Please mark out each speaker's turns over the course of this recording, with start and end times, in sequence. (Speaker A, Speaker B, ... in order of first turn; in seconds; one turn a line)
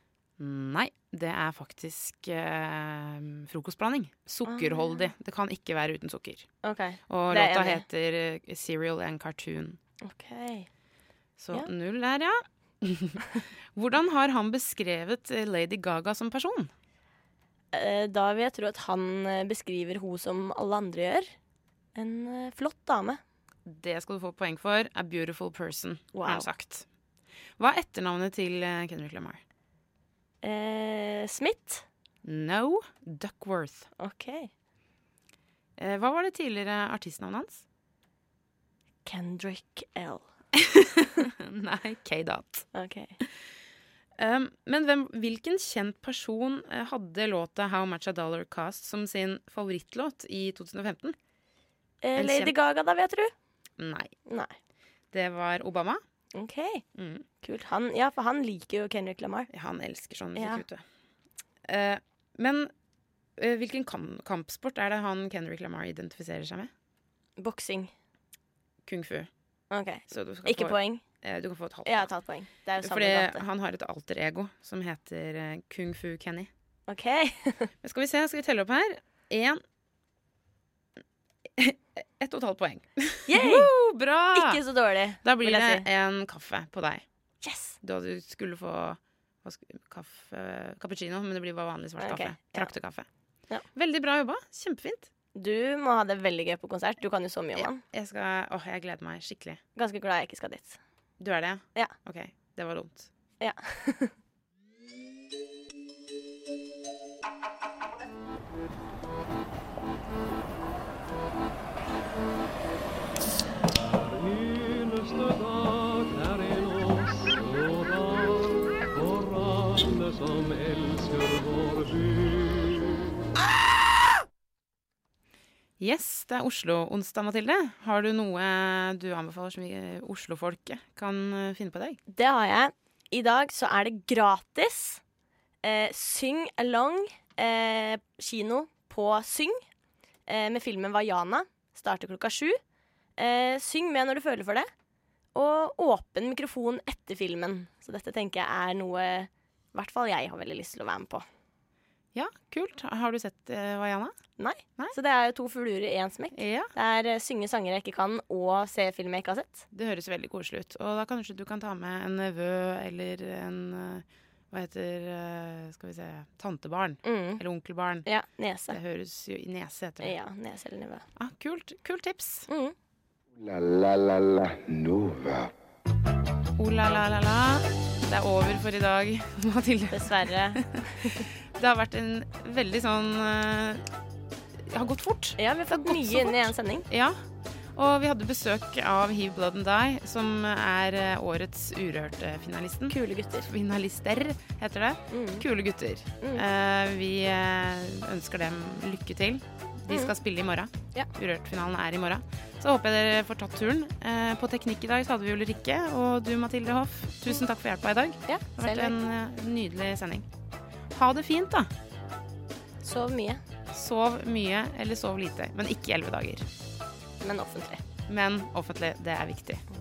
Speaker A: 0.4-6.5
Speaker B: 4.5-5.1
Speaker B: 6.6-7.8
Speaker A: 7.1-9.8
Speaker B: 10.0-10.7
Speaker A: 11.4-16.7
Speaker B: 17.7-21.3
Speaker B: 21.9-23.2
Speaker A: 23.7-26.9
Speaker B: 26.1-26.5
Speaker A: 27.6-29.4
Speaker B: 30.4-31.9
Speaker A: 32.2-33.9
Speaker B: 34.0-34.5
Speaker A: 35.8-37.6
Speaker B: 39.0-40.3
Speaker A: 40.6-42.7
Speaker B: 42.7-43.2
Speaker A: 44.2-51.2
Speaker B: 52.0-53.3
Speaker A: 52.2-52.5
Speaker A: 53.8-54.1
Speaker B: 54.3-54.5
Speaker A: 55.1-56.0
Speaker B: 56.3-56.8
Speaker A: 57.0-57.2
Speaker B: 57.4-59.5
Speaker A: 59.5-60.8
Speaker B: 60.4-60.6
Speaker A: 61.7-62.7
Speaker A: 63.4-66.7
Speaker B: 67.4-67.9
Speaker A: 68.8-69.3
Speaker B: 69.7-71.0
Speaker A: 70.1-72.1
Speaker B: 71.8-73.4
Speaker A: 72.8-76.5
Speaker B: 76.9-77.7
Speaker A: 77.8-79.6
Speaker A: 81.6-84.6
Speaker B: 83.3-83.7
Speaker B: 84.3-85.9
Speaker A: 85.2-87.0
Speaker B: 87.4-87.8
Speaker A: 87.8-93.1
Speaker B: 92.0-92.7
Speaker A: 93.7-95.1
Speaker B: 95.3-97.8
Speaker A: 97.6-99.6
Speaker B: 99.8-100.8
Speaker A: 101.2-103.1
Speaker B: 103.4-104.2
Speaker A: 125.8-132.0
Speaker B: 132.1-135.0
Speaker B: 135.6-139.6
Speaker B: 140.3-142.6
Speaker B: 143.2-144.7
Speaker B: 145.3-151.3
Speaker A: 152.1-154.2
Speaker B: 154.4-159.7
Speaker A: 156.3-156.7
Speaker A: 159.7-168.1
Speaker B: 167.0-167.4
Speaker B: 168.1-168.8
Speaker A: 168.7-170.1
Speaker B: 170.0-171.1
Speaker A: 171.2-172.5
Speaker B: 172.5-172.7
Speaker C: 173.3-175.5
Speaker A: 176.6-180.2
Speaker B: 179.9-181.2
Speaker A: 181.6-183.8
Speaker A: 184.7-187.2
Speaker B: 185.4-186.9
Speaker A: 187.8-210.3
Speaker B: 192.9-193.5
Speaker B: 195.1-195.4
Speaker B: 208.3-208.9
Speaker A: 210.9-211.7
Speaker B: 212.8-213.4
Speaker A: 213.7-216.5
Speaker B: 217.2-217.8
Speaker A: 218.1-219.6